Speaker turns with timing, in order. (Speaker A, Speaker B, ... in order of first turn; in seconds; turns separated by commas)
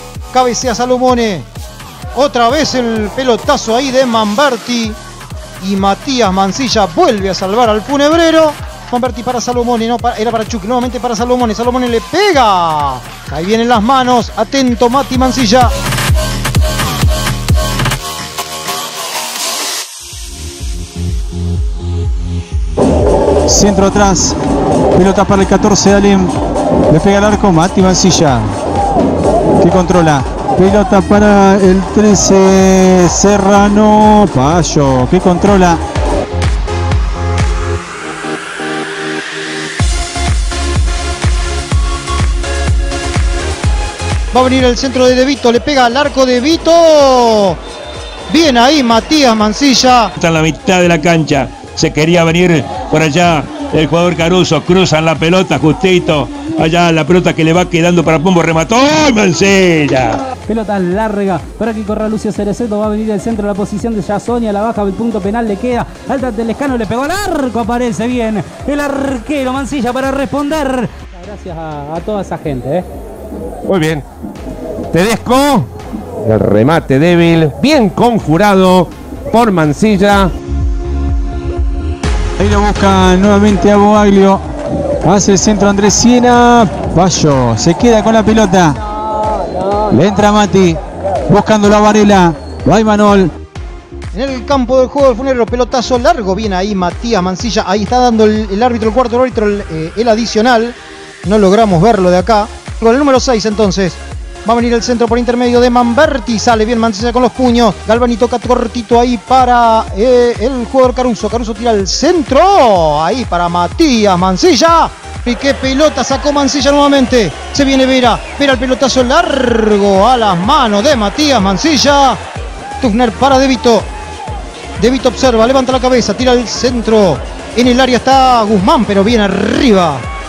Speaker A: 0.3-1.5, Speaker A: 2.1-5.0, Speaker A: 5.6-15.7, Speaker B: 23.5-24.4, Speaker B: 24.9-26.4, Speaker B: 26.9-28.5, Speaker B: 29.6-35.8, Speaker A: 44.3-47.6, Speaker A: 48.3-50.1, Speaker C: 50.2-60.3, Speaker D: 60.4-72.9, Speaker E: 73.7-74.0, Speaker E: 74.9-75.7, Speaker E: 76.2-80.3, Speaker B: 82.4-84.4, Speaker B: 85.0-88.8, Speaker B: 89.9-93.3, Speaker A: 94.1-122.2, Speaker A: 122.8-123.9, Speaker A: 124.8-130.1